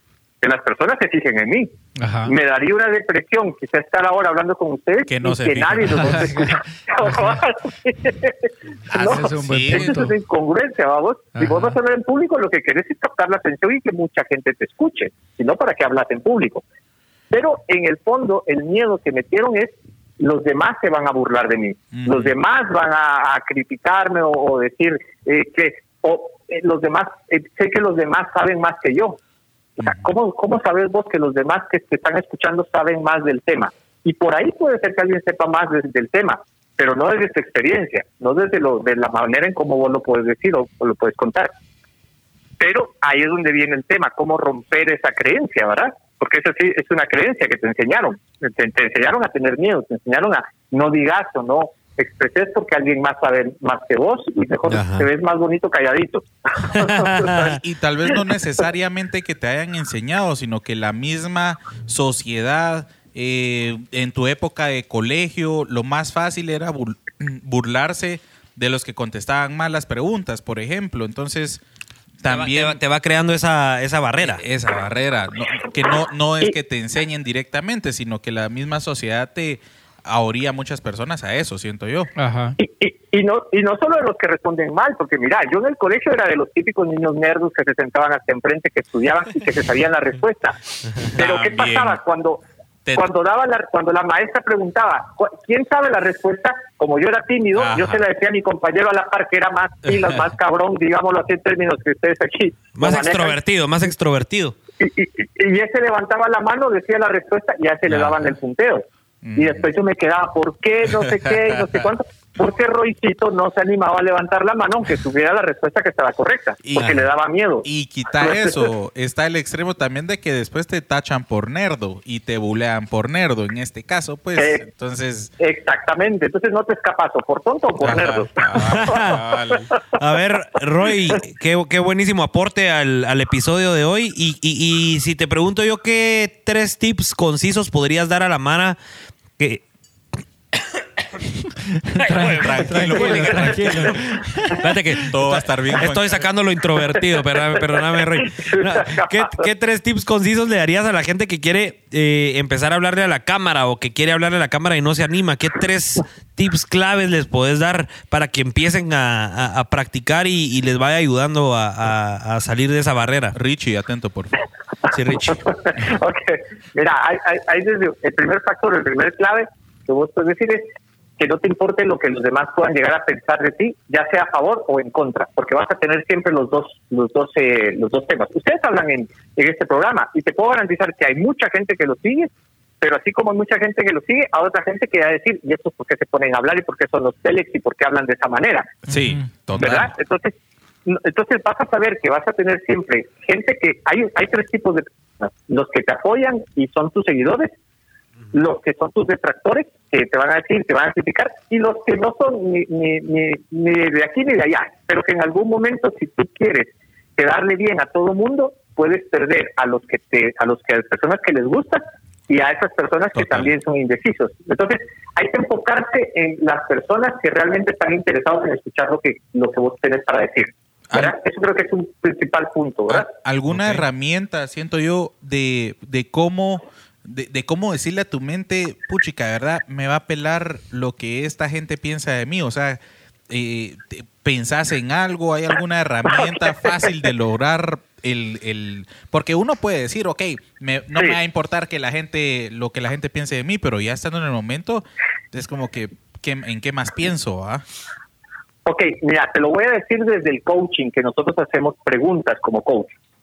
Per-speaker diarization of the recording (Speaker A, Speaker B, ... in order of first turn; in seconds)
Speaker A: 0.4-1.7, 2.3-16.6, 17.3-29.2, 29.8-41.5, 42.6-57.6, 82.6-90.6, 91.1-92.4, 92.9-103.4, 104.8-108.8, 109.4-118.7, 124.4-124.7, 125.4-129.0, 130.9-131.2, 146.8-149.5, 165.2-188.8, 189.6-190.3, 190.9-197.5, 198.3-223.1, 236.1-236.9, 248.7-252.9
Speaker B: 2.0-2.3, 5.9-7.4, 8.9-10.2, 11.3-11.8, 82.2-82.6, 141.8-144.6, 188.9-189.3
Speaker C: 5.1-6.3, 8.9-10.1, 21.9-22.3, 57.5-71.6, 72.2-72.8, 74.2-82.1, 91.2-92.0, 97.5-98.0, 109.2-109.7, 111.1-111.5, 116.6-117.0, 117.6-125.3, 127.8-129.7, 142.2-144.2, 144.9-146.3, 163.3-164.3, 188.9-189.9, 213.2-213.5, 220.9-221.2, 222.9-247.6
Speaker D: 54.7-55.1, 56.7-57.6, 72.3-74.4, 102.7-104.6, 128.5-129.2, 130.0-138.8, 139.4-139.6, 142.0-143.9, 144.6-163.4, 164.9-165.4, 223.5-223.8